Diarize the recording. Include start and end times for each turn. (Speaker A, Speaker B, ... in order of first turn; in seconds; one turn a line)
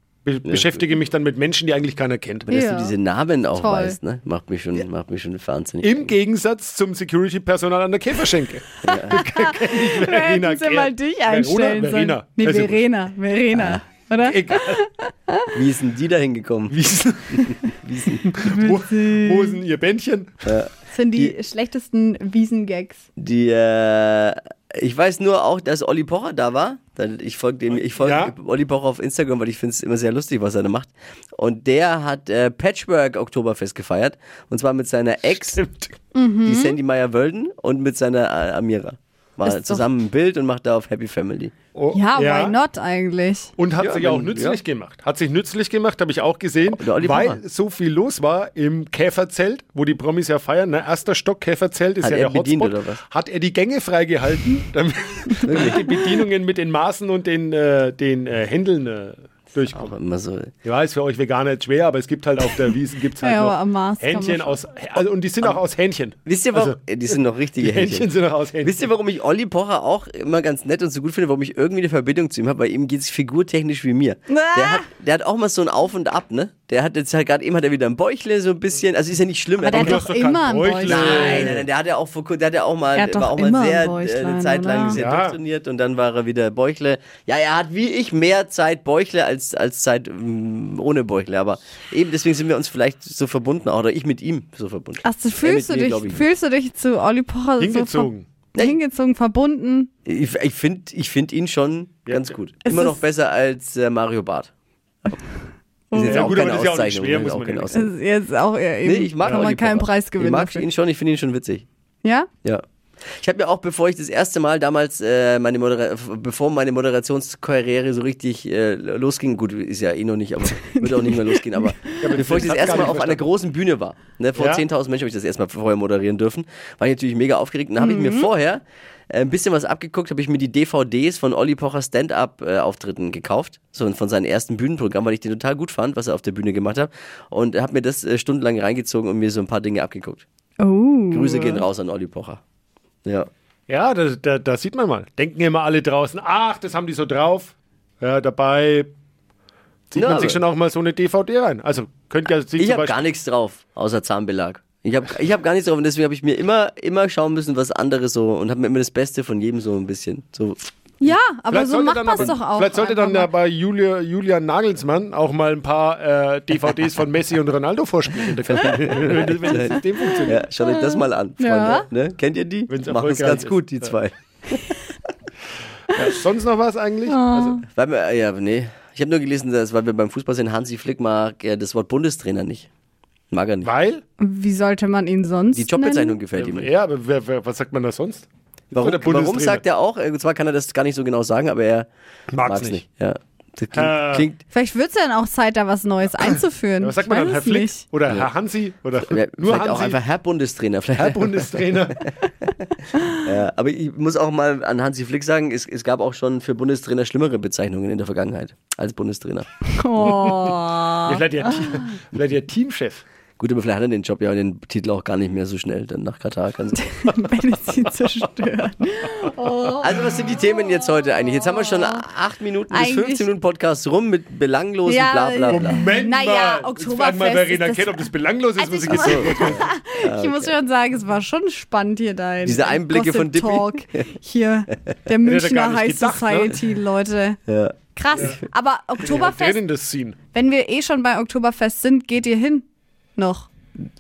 Speaker A: 0.2-2.5
Speaker B: 0.4-0.8
Speaker B: 2.5-6.1
Speaker C: 2.5-2.9
Speaker C: 3.5-4.0
Speaker A: 5.8-12.8
Speaker B: 8.8-9.2
Speaker C: 8.9-15.6
Speaker B: 13.5-13.8
Speaker A: 14.2-14.8
Speaker B: 15.5-16.8
Speaker A: 16.7-17.6
Speaker B: 17.3-18.3
Speaker A: 18.2-20.6
Speaker C: 18.4-19.6
Speaker B: 20.4-21.3
Speaker C: 20.8-23.0
Speaker B: 23.2-35.6
Speaker A: 27.9-28.3
Speaker A: 35.5-35.9
Speaker C: 36.1-36.8
Speaker B: 36.4-41.5
Speaker C: 39.4-39.9
Speaker A: 41.7-42.6
Speaker C: 41.9-43.5
Speaker A: 43.6-60.0
Speaker B: 43.8-44.6
Speaker B: 46.7-47.4
Speaker B: 52.0-53.0
Speaker B: 55.4-55.8
Speaker B: 59.7-60.5
Speaker A: 60.6-66.8
Speaker C: 63.2-64.6
Speaker B: 66.2-80.1
Speaker A: 67.6-68.8
Speaker C: 74.3-74.9
Speaker C: 79.6-81.6
Speaker A: 79.7-81.7
Speaker B: 80.8-96.3
Speaker C: 82.9-85.0
Speaker A: 84.9-85.4
Speaker C: 95.0-99.9
Speaker A: 97.6-98.3
Speaker B: 98.5-98.8
Speaker B: 100.1-104.5
Speaker A: 102.1-102.4
Speaker C: 102.6-103.0
Speaker C: 105.9-106.3
Speaker B: 105.9-107.9
Speaker A: 106.0-107.9
Speaker C: 107.7-110.7
Speaker B: 108.8-111.7
Speaker A: 109.2-109.5
Speaker C: 112.0-112.3
Speaker B: 113.2-140.2
Speaker C: 120.5-122.8
Speaker A: 122.0-123.3
Speaker A: 124.3-124.6
Speaker C: 127.8-128.3
Speaker C: 140.6-141.6
Speaker B: 141.1-142.4
Speaker A: 143.7-148.9
Speaker A: 149.9-153.0
Speaker B: 149.9-150.4
Speaker B: 152.6-160.7
Speaker C: 161.0-163.3
Speaker A: 161.5-170.5
Speaker B: 168.4-174.6
Speaker C: 170.0-171.9
Speaker A: 172.7-174.0
Speaker A: 175.9-177.6
Speaker C: 177.1-177.6
Speaker B: 177.7-182.7
Speaker B: 183.3-183.7
Speaker A: 183.6-184.0
Speaker C: 184.2-186.2
Speaker B: 185.5-186.7
Speaker A: 186.3-189.6
Speaker B: 188.7-191.9
Speaker A: 192.3-192.8
Speaker B: 192.4-194.4
Speaker A: 193.7-194.3
Speaker C: 194.5-197.9
Speaker A: 196.2-200.0
Speaker B: 199.0-202.1
Speaker A: 200.9-202.0
Speaker B: 202.6-209.5
Speaker C: 202.9-203.2
Speaker C: 209.7-211.7
Speaker A: 210.0-213.0
Speaker B: 213.4-216.8
Speaker C: 216.8-222.1
Speaker A: 219.1-219.7
Speaker B: 219.8-225.8
Speaker C: 222.7-223.3
Speaker C: 224.8-237.4
Speaker A: 225.5-229.7
Speaker B: 228.9-230.5
Speaker B: 232.4-234.1
Speaker A: 235.2-236.7
Speaker B: 237.5-238.4
Speaker C: 237.9-239.6
Speaker A: 239.0-240.2
Speaker C: 240.3-242.7
Speaker C: 243.2-243.5